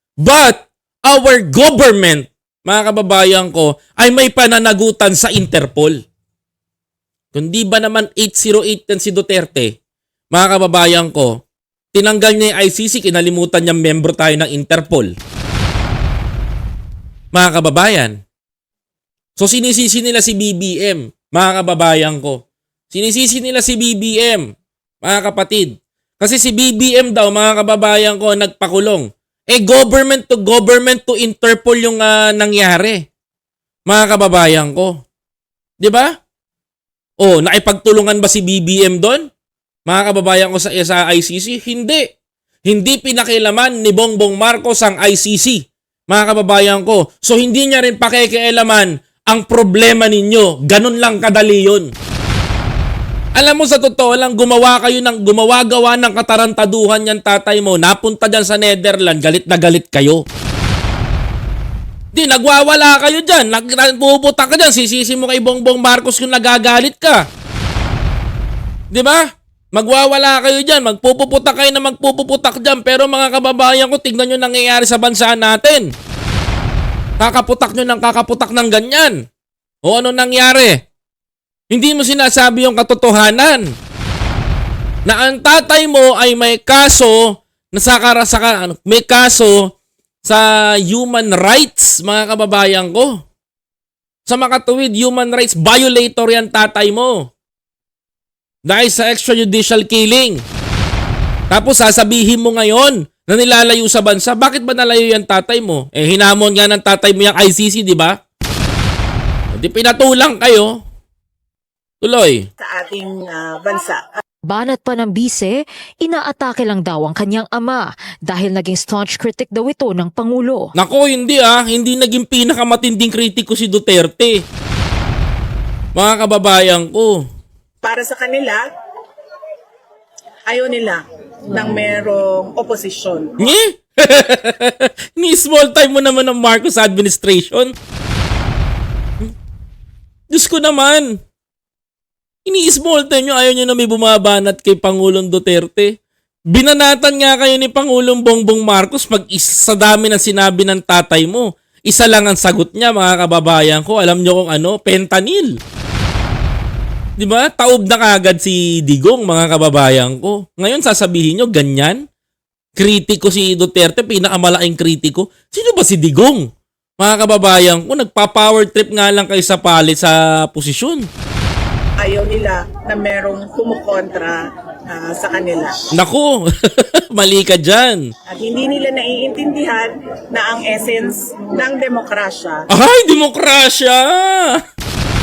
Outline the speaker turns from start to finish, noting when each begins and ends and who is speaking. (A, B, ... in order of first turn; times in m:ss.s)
0:00.2-0:06.0 A
0:07.3-0:09.8 A
0:10.3-0:11.4 A
0:11.9-0:15.1 A
0:17.3-0:18.2 A
0:19.4-0:24.5 A
0:25.0-0:33.0 A
0:33.9-0:35.0 A
0:35.8-0:36.1 A
0:37.2-0:39.2 A
0:39.9-0:42.1 A
0:42.6-0:51.9 A
0:53.4-1:00.2 A
1:02.1-1:07.2 A
1:08.9-1:09.2 A
1:09.7-1:15.9 A
1:17.2-1:19.2 A
1:19.8-1:20.8 A
1:21.7-1:23.7 A
1:25.0-1:29.7 A
1:30.2-1:33.2 A
1:34.3-1:37.3 A
1:38.6-1:40.4 A
1:41.5-1:48.2 A
1:49.5-1:50.8 A
1:52.0-1:52.4 A
1:52.6-1:54.2 B
1:54.5-2:00.7 C
2:00.8-2:04.4 A
2:06.0-2:07.2 A
2:07.8-2:08.6 B
2:10.5-2:13.5 B
2:13.4-2:17.7 A
2:20.3-2:21.1 A
2:22.4-2:25.9 A
2:26.5-2:35.5 A
2:37.2-2:42.0 A
2:42.8-2:46.5 A
2:47.0-2:51.1 A
2:52.0-2:55.9 B
2:55.9-2:58.0 A
2:58.3-3:02.6 B
3:02.7-3:04.6 A